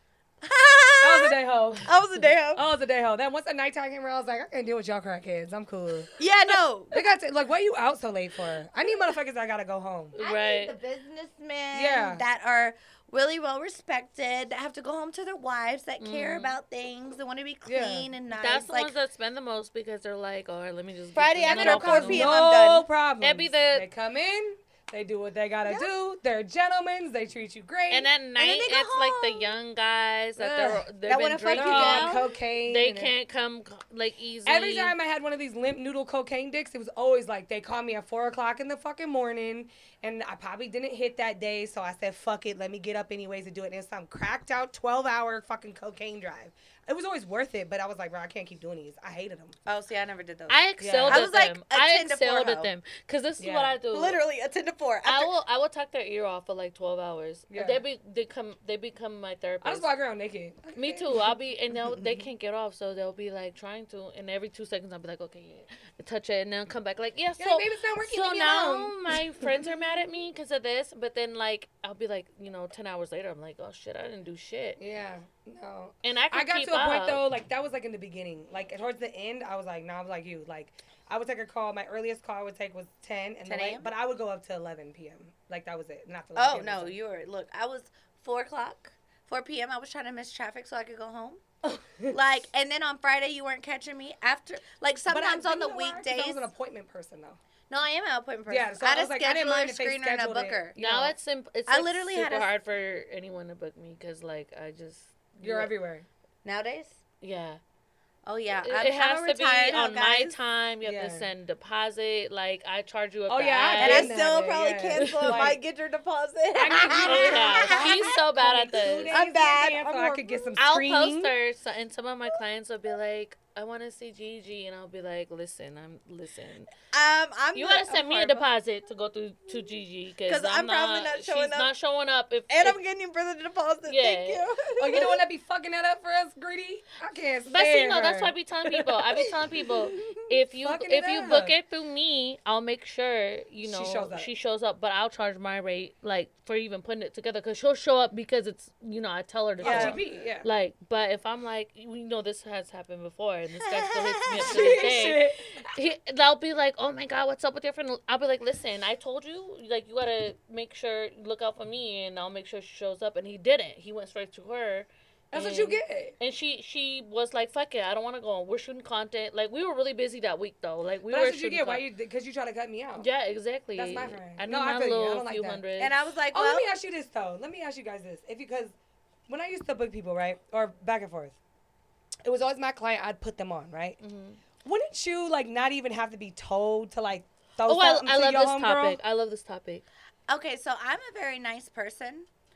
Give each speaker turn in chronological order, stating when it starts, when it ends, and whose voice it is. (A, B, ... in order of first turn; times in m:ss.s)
0:00.4-0:02.7 A
0:01.0-0:01.9 B
0:02.6-0:06.2 B
0:06.2-0:07.0 A
0:06.9-0:10.2 B
0:10.2-0:10.8 C
0:10.2-0:18.9 A
0:11.7-0:12.2 B
0:16.0-0:16.5 C
0:17.7-0:18.1 B
0:18.3-0:22.4 C
0:21.1-0:22.9 A
0:21.4-0:28.1 B
0:23.2-0:23.9 C
0:27.9-0:35.0 C
0:28.4-0:29.5 A
0:30.4-0:30.9 B
0:31.1-0:32.3 A
0:31.5-0:33.1 B
0:34.5-0:49.6 B
0:49.7-0:52.7 A
0:50.5-0:54.2 C
0:50.8-0:51.3 B
0:53.4-0:53.8 B
0:53.9-0:55.3 A
0:55.0-0:59.9 C
0:57.5-0:57.8 B
0:59.6-1:01.1 B
1:00.8-1:14.8 C
1:01.8-1:02.3 A
1:07.4-1:09.6 B
1:14.8-1:27.0 B
1:16.0-1:17.2 C
1:23.4-1:23.9 A
1:26.4-1:31.4 A
1:31.6-1:32.2 B
1:32.1-1:36.5 A
1:35.1-1:37.4 B
1:37.7-1:40.8 A
1:38.5-1:41.2 B
1:40.8-1:45.7 C
1:41.7-1:42.5 A
1:45.4-1:46.1 B
1:46.4-1:47.0 A
1:47.2-1:47.6 C
1:48.3-1:50.4 A
1:48.6-1:54.2 C
1:50.8-1:51.3 B
1:53.3-1:55.6 B
1:53.8-1:58.2 A
1:55.0-1:55.4 C
1:56.6-2:01.3 B
1:57.0-1:59.1 C
1:59.1-2:00.5 A
2:00.6-2:06.7 C
2:06.9-2:08.5 A
2:07.6-2:12.8 C
2:10.2-2:11.7 A
2:12.5-2:15.2 A
2:13.9-2:14.4 C
2:14.8-2:18.3 B
2:17.5-2:51.9 C
2:19.1-2:20.2 A
2:20.6-2:21.5 B
2:23.6-2:24.3 B
2:29.6-2:30.5 B
2:29.6-2:30.0 A
2:33.7-2:34.6 A
2:34.4-2:35.6 B
2:45.3-2:46.2 B
2:51.1-2:53.1 B
2:53.0-2:55.9 C
2:53.8-2:55.6 B
2:55.8-2:56.7 A
2:56.3-2:58.8 B
2:59.3-3:01.4 B
3:02.2-3:04.0 B
3:04.0-3:04.4 C
3:04.6-3:09.0 B
3:07.6-3:09.8 C
3:10.3-3:12.3 A